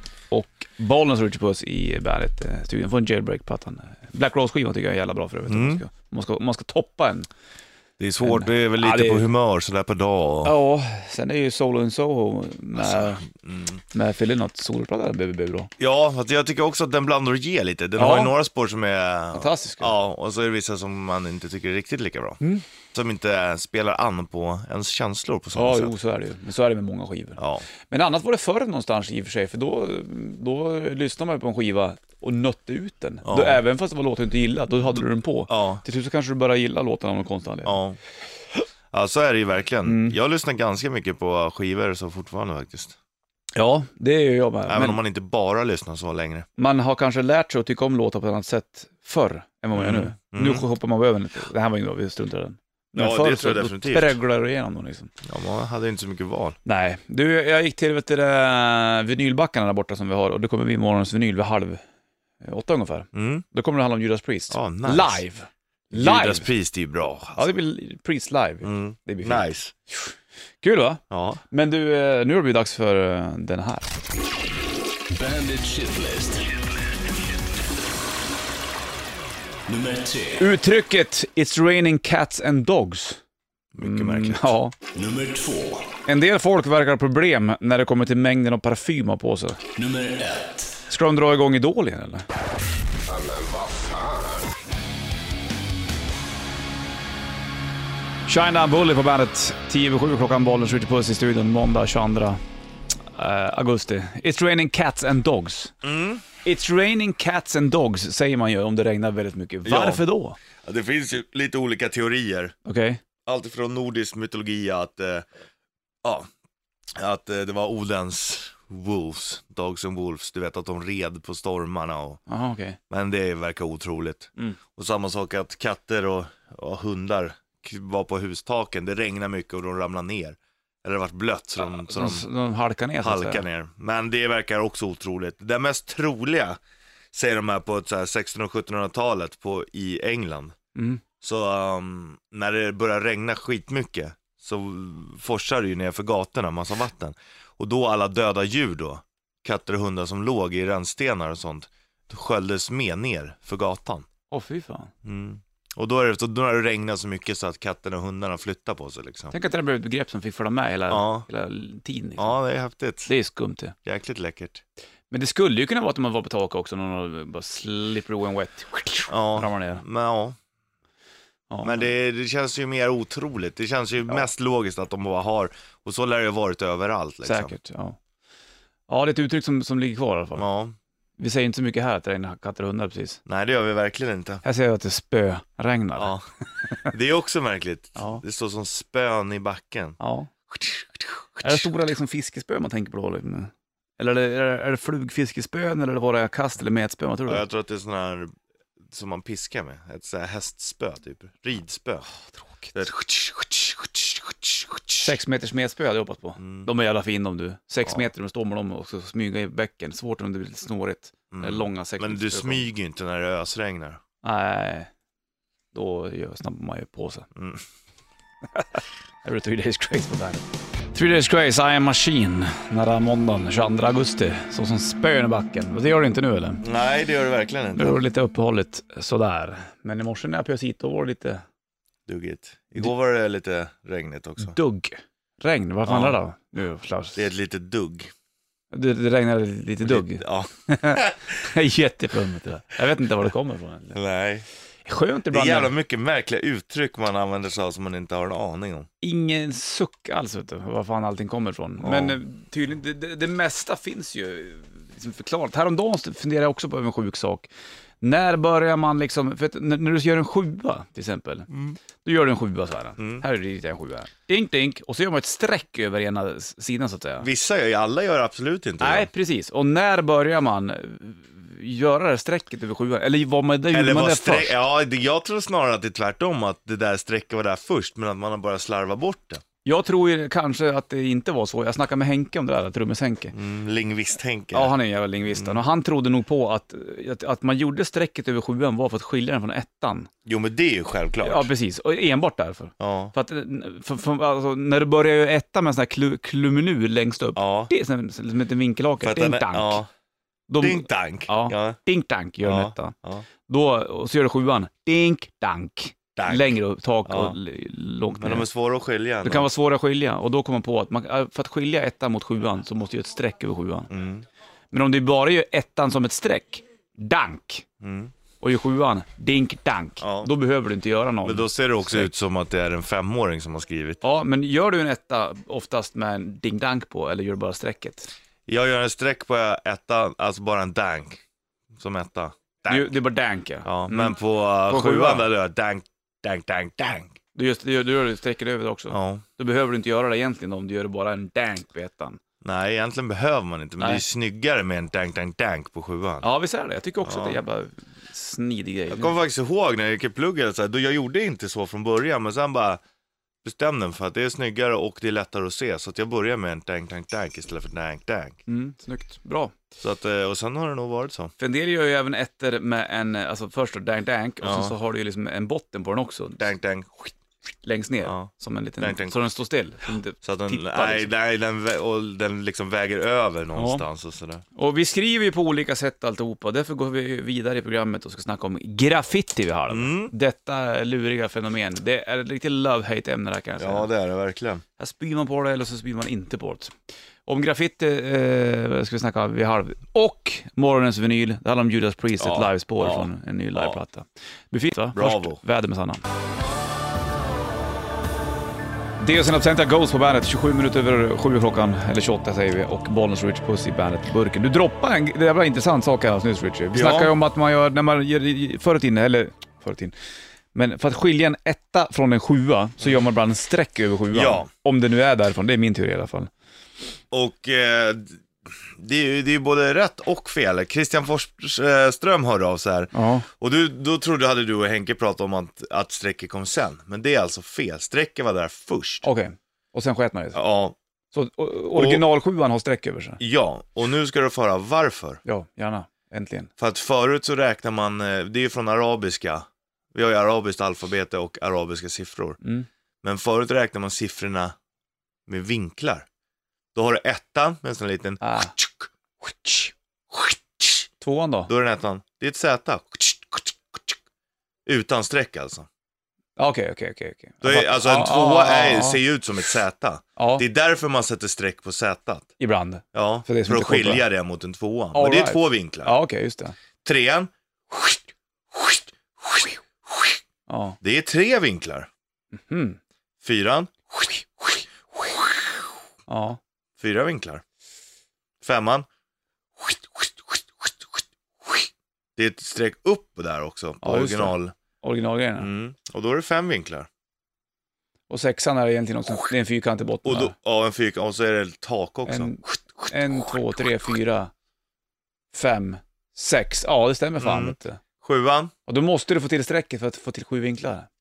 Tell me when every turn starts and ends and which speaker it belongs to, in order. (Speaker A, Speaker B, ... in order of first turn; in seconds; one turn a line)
Speaker A: 0.3-7.3
Speaker B: 5.5-5.8
Speaker B: 8.0-10.5
Speaker A: 8.2-9.3
Speaker A: 10.4-13.2
Speaker B: 12.8-13.8
Speaker A: 13.9-15.7
Speaker B: 15.8-22.4
Speaker A: 18.0-18.3
Speaker A: 19.3-19.9
Speaker B: 22.9-25.9
Speaker A: 25.5-37.8
Speaker B: 27.4-27.6
Speaker B: 33.2-33.6
Speaker B: 35.5-35.8
Speaker B: 37.6-38.0
Speaker B: 38.9-43.0
Speaker A: 39.8-40.2
Speaker A: 43.5-45.0
Speaker B: 44.7-46.5
Speaker A: 46.6-55.1
Speaker B: 49.7-50.6
Speaker B: 53.0-54.1
Speaker B: 55.2-56.6
Speaker A: 56.6-61.8
Speaker A: 62.4-66.5
Speaker B: 63.1-63.4
Speaker B: 64.5-65.2
Speaker B: 65.9-67.5
Speaker A: 67.4-73.9
Speaker B: 68.6-69.7
Speaker B: 71.1-71.4
Speaker C: 75.1-76.5
Speaker C: 79.7-80.4
Speaker A: 80.3-83.2
Speaker B: 83.7-84.5
Speaker A: 83.8-84.7
Speaker C: 84.9-85.9
Speaker A: 86.0-89.6
Speaker C: 89.8-90.6
Speaker A: 90.9-92.2
Speaker A: 98.3-102.4
Speaker A: 103.1-105.7
Speaker B: 105.8-106.2
Speaker A: 106.4-110.4
Speaker B: 109.6-110.0
Speaker B: 110.6-112.5
Speaker A: 112.6-113.0
Speaker B: 113.2-115.2
Speaker B: 117.0-122.2
Speaker A: 122.3-122.8
Speaker B: 122.9-132.2
Speaker A: 131.6-133.4
Speaker B: 133.0-136.6
Speaker B: 137.1-140.5
Speaker A: 140.7-141.0
Speaker B: 141.2-154.1
Speaker A: 154.3-154.9
Speaker B: 155.0-159.3
Speaker A: 159.3-162.4
Speaker B: 160.9-161.2
Speaker B: 162.2-163.1
Speaker A: 163.1-163.7
Speaker B: 163.8-164.6
Speaker A: 165.1-169.8
Speaker B: 169.1-170.3
Speaker A: 171.5-171.9
Speaker B: 171.6-177.5
Speaker A: 177.2-178.0
Speaker A: 178.9-180.4
Speaker B: 180.4-180.8
Speaker A: 181.2-183.2
Speaker B: 183.2-184.4
Speaker A: 184.4-186.1
Speaker B: 185.9-186.2
Speaker B: 186.8-190.0
Speaker A: 187.9-188.2
Speaker A: 190.0-190.3
Speaker B: 190.5-191.7
Speaker A: 191.4-197.4
Speaker B: 197.3-198.3
Speaker B: 198.9-202.1
Speaker B: 202.7-205.1
Speaker A: 205.0-212.7
Speaker B: 206.4-206.7
Speaker B: 211.3-214.0
Speaker A: 214.2-214.9
Speaker A: 215.7-217.3
Speaker B: 217.3-217.6
Speaker A: 218.5-226.6
Speaker B: 226.6-228.0
Speaker A: 227.7-231.4
Speaker B: 232.1-234.6
Speaker A: 234.4-237.2
Speaker B: 235.8-236.2
Speaker B: 237.2-238.1
Speaker A: 238.7-244.0
Speaker B: 239.8-241.5
Speaker B: 243.9-244.4
Speaker A: 244.8-245.7
Speaker B: 245.3-248.9
Speaker A: 249.0-257.5
Speaker B: 251.8-252.2
Speaker A: 258.0-267.3
Speaker B: 261.5-261.8
Speaker B: 263.0-263.2
Speaker B: 267.2-269.1
Speaker A: 268.8-274.6
Speaker B: 273.7-279.4
Speaker A: 279.6-283.3
Speaker B: 283.3-284.7
Speaker A: 284.5-290.1
Speaker B: 285.3-285.6
Speaker B: 290.2-291.5
Speaker A: 291.2-299.8
Speaker B: 292.8-293.1
Speaker B: 297.4-297.7
Speaker B: 299.0-299.9
Speaker A: 300.5-302.9
Speaker B: 300.6-301.8
Speaker B: 302.4-303.2
Speaker A: 303.5-308.5
Speaker B: 306.1-306.5
Speaker B: 307.1-307.4
Speaker B: 308.1-309.5
Speaker A: 309.2-313.9
Speaker B: 313.9-314.2
Speaker A: 314.7-317.6
Speaker B: 317.8-318.1
Speaker A: 318.4-322.1
Speaker B: 320.0-320.3
Speaker B: 321.2-324.0
Speaker A: 324.0-328.1
Speaker B: 328.5-331.2
Speaker B: 331.8-332.9
Speaker A: 332.7-335.3
Speaker B: 333.6-337.1
Speaker A: 337.3-342.2
Speaker B: 338.9-339.2
Speaker B: 342.4-346.2
Speaker A: 346.2-349.1
Speaker B: 347.0-347.4
Speaker B: 348.9-352.8
Speaker B: 353.4-358.4
Speaker A: 358.5-359.5
Speaker B: 359.8-361.3
Speaker A: 361.4-366.5
Speaker B: 364.4-364.8
Speaker B: 366.4-367.1
Speaker A: 367.6-371.1
Speaker B: 368.0-369.3
Speaker B: 370.2-374.4
Speaker A: 373.6-373.8
Speaker A: 374.5-383.9
Speaker B: 379.7-380.1
Speaker B: 383.6-384.6
Speaker A: 384.8-386.7
Speaker A: 387.2-396.0
Speaker B: 392.2-393.8
Speaker B: 394.9-395.4
Speaker A: 399.0-409.9
Speaker B: 406.7-407.1
Speaker A: 410.5-416.3
Speaker B: 414.1-414.5
Speaker B: 417.1-429.1
Speaker A: 422.9-423.2
Speaker A: 429.0-430.4
Speaker B: 430.3-430.8
Speaker A: 431.1-433.2
Speaker B: 431.7-432.0
Speaker B: 433.2-435.2
Speaker A: 435.2-436.5
Speaker B: 436.6-442.4
Speaker A: 442.4-442.7
Speaker B: 443.0-444.5
Speaker B: 445.3-446.1
Speaker B: 446.7-450.9
Speaker A: 448.2-448.5
Speaker A: 451.0-451.5
Speaker B: 451.5-454.0
Speaker B: 454.6-455.7
Speaker A: 456.4-459.0
Speaker B: 457.4-462.3
Speaker A: 460.2-460.4
Speaker A: 462.4-464.0
Speaker B: 462.9-466.0
Speaker A: 464.9-466.6
Speaker B: 466.8-470.2
Speaker A: 470.5-470.8
Speaker B: 470.8-471.9
Speaker A: 472.3-472.8
Speaker B: 473.2-475.6
Speaker A: 476.1-476.4
Speaker B: 476.8-477.4
Speaker B: 478.4-478.9
Speaker B: 479.6-484.5
Speaker A: 483.8-485.5
Speaker B: 485.4-486.9
Speaker A: 488.1-490.3
Speaker B: 490.0-492.9
Speaker A: 492.1-494.3
Speaker A: 495.3-497.8
Speaker B: 497.2-498.5
Speaker A: 498.7-500.9